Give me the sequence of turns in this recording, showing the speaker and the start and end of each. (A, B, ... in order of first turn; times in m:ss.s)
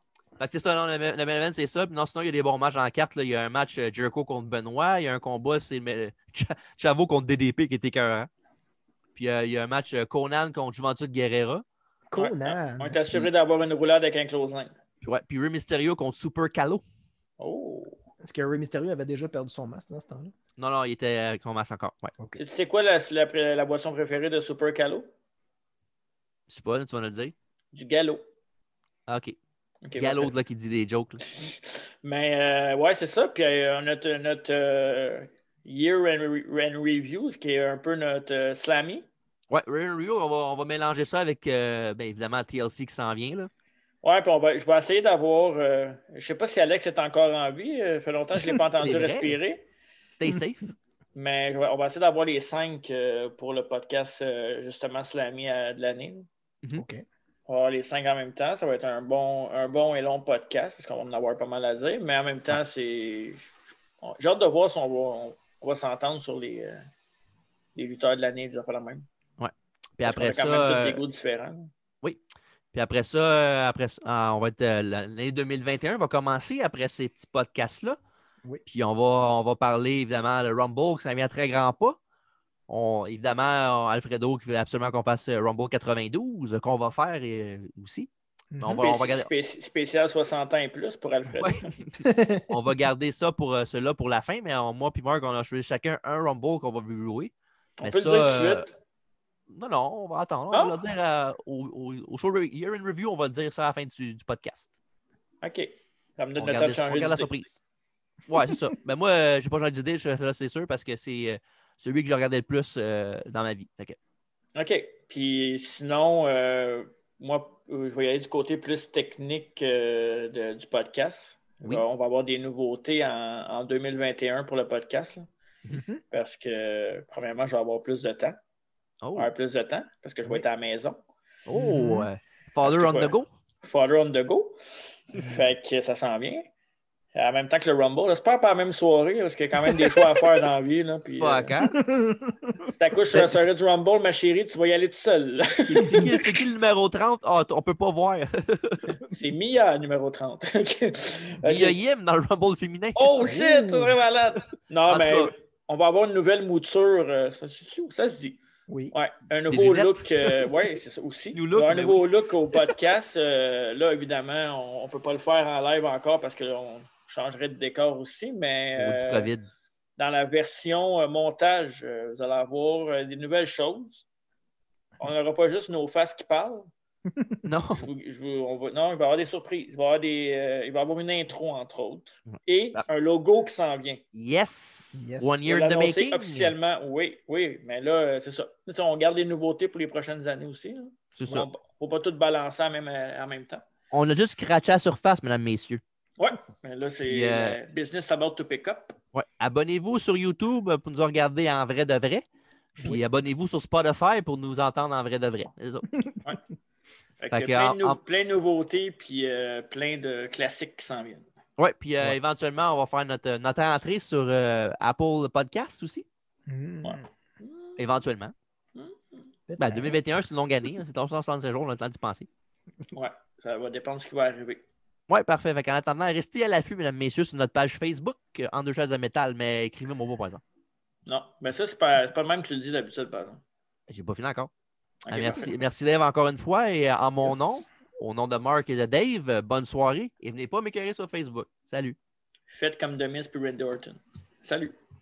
0:00.4-0:08.3 A
0:09.2-0:11.6 A
0:12.1-0:13.3 B
0:12.2-0:14.8 C
0:15.0-0:16.8 A
0:17.4-0:18.0 C
0:18.2-0:20.3 B
0:20.6-0:22.1 A
0:22.4-0:25.1 C
0:26.5-0:27.4 A
0:27.7-0:28.2 C
0:29.1-0:29.4 A
0:29.8-0:30.3 C
0:30.0-0:31.3 A
0:31.3-0:39.1 C
0:39.5-0:43.5 A
0:44.0-0:49.7 C
0:48.8-0:49.4 A
0:50.1-0:50.7 A
0:51.2-0:56.3 C
0:56.8-0:57.0 B
0:57.5-1:06.9 C
1:07.8-1:09.1 C
1:09.4-1:11.0 A
1:10.1-1:11.7 C
1:12.7-1:18.0 A
1:18.7-1:22.0 A
1:22.7-1:28.1 A
1:28.5-1:28.8 B
1:28.6-1:29.3 A
1:28.7-1:31.7 C
1:31.4-1:38.7 A
1:32.0-1:32.5 B
1:37.8-1:38.7 C
1:39.5-1:44.7 A
1:40.5-1:40.8 C
1:45.4-1:47.4 C
1:46.4-1:47.6 A
1:48.3-1:54.0 A
1:54.6-2:05.3 C
2:05.7-2:06.0 B
2:06.1-2:08.4 C
2:09.0-2:09.3 A
2:09.2-2:11.0 C
2:11.5-2:13.3 A
2:11.5-2:12.1 B
2:12.6-2:16.5 C
2:17.1-2:21.5 C
2:21.2-2:21.8 A
2:21.7-2:22.6 B
2:22.7-2:26.1 C
2:23.1-2:23.4 A
2:25.7-2:29.0 A
2:25.8-2:26.2 B
2:29.1-2:31.8 C
2:31.4-2:33.4 A
2:33.0-2:38.4 C
2:33.2-2:34.0 B
2:34.9-2:35.3 A
2:38.7-2:39.0 B
2:38.9-2:49.3 C
2:39.5-2:40.5 A
2:41.3-2:42.1 A
2:48.8-2:49.5 A
2:50.0-2:54.0 C
2:55.0-2:56.7 C
2:57.4-2:57.9 A
2:57.8-3:04.0 C
3:04.1-3:06.6 A
3:05.0-3:05.5 B
3:05.4-3:13.6 C
3:11.2-3:11.5 A
3:13.9-3:15.8 A
3:16.2-3:19.0 C
3:17.0-3:17.6 A
3:19.1-3:22.2 A
3:22.8-3:25.9 A
3:27.2-3:31.3 C
3:27.3-3:28.0 A
3:31.6-3:36.1 A
3:36.5-3:37.1 B
3:36.8-3:37.8 C
3:37.8-3:38.3 A
3:38.8-3:39.3 C
3:39.5-3:40.0 B
3:39.6-3:42.3 A
3:42.9-3:44.6 C
3:45.1-3:50.4 A
3:51.1-3:53.4 C
3:53.9-3:54.5 A
3:55.0-3:55.5 C
3:55.1-4:02.0 A
3:57.2-3:57.6 B
4:02.5-4:04.8 C